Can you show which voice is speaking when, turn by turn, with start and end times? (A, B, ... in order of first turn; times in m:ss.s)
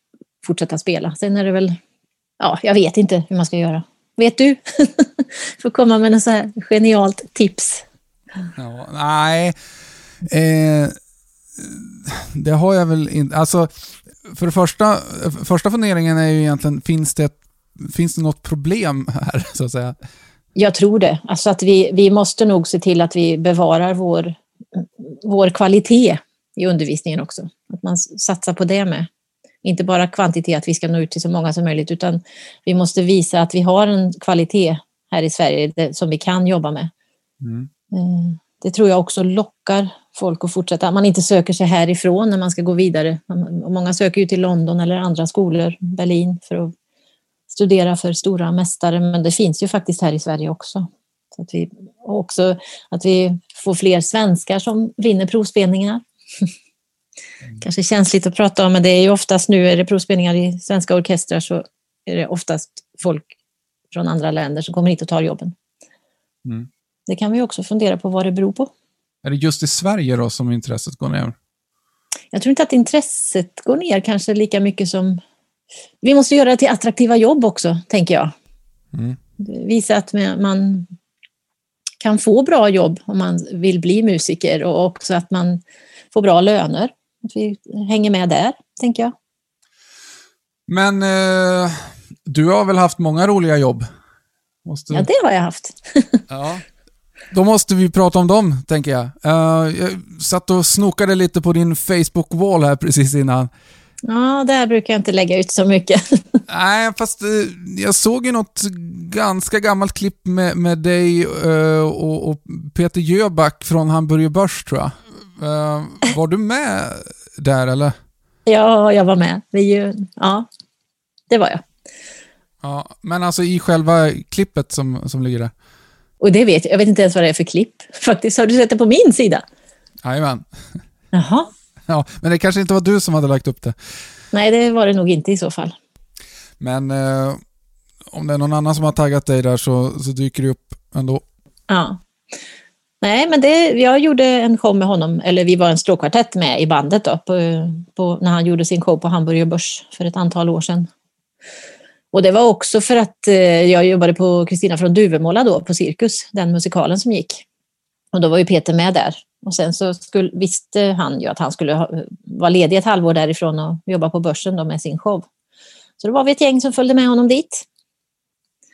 0:00.4-0:01.8 A
0:02.4-0:07.8 A
0:08.6-0:09.5 B
0:10.2-0:10.9 B
0:11.6-0:20.0 B
0:20.6-0:29.1 A
0:29.6-0:36.9 A
0:37.4-0:37.7 B
0:37.9-0:46.7 A
0:47.5-0:56.5 A
0:57.6-1:03.3 A
1:03.9-1:05.5 A
1:07.1-1:08.7 A
1:09.2-1:11.3 B
1:12.3-1:15.2 A
1:16.0-1:18.3 A
1:18.9-1:19.2 B
1:19.4-1:20.9 A
1:22.0-1:25.6 A
1:26.1-1:29.1 A
1:30.7-1:33.9 B
1:34.6-1:35.1 B
1:34.9-1:36.2 A
1:36.3-1:36.6 B
1:37.3-1:43.5 B
1:44.1-1:46.4 A
1:46.5-1:57.9 B
1:58.5-2:00.5 A
2:01.3-2:01.6 A
2:02.6-2:05.5 B
2:06.2-2:09.4 A
2:10.0-2:10.4 B
2:11.1-2:11.5 A
2:11.9-2:13.8 B
2:14.3-2:15.7 A
2:16.6-2:17.4 B
2:18.1-2:21.2 B
2:21.7-2:22.0 A
2:23.0-2:30.9 A
2:32.1-2:37.4 A
2:38.1-2:45.2 A
2:46.0-2:47.6 A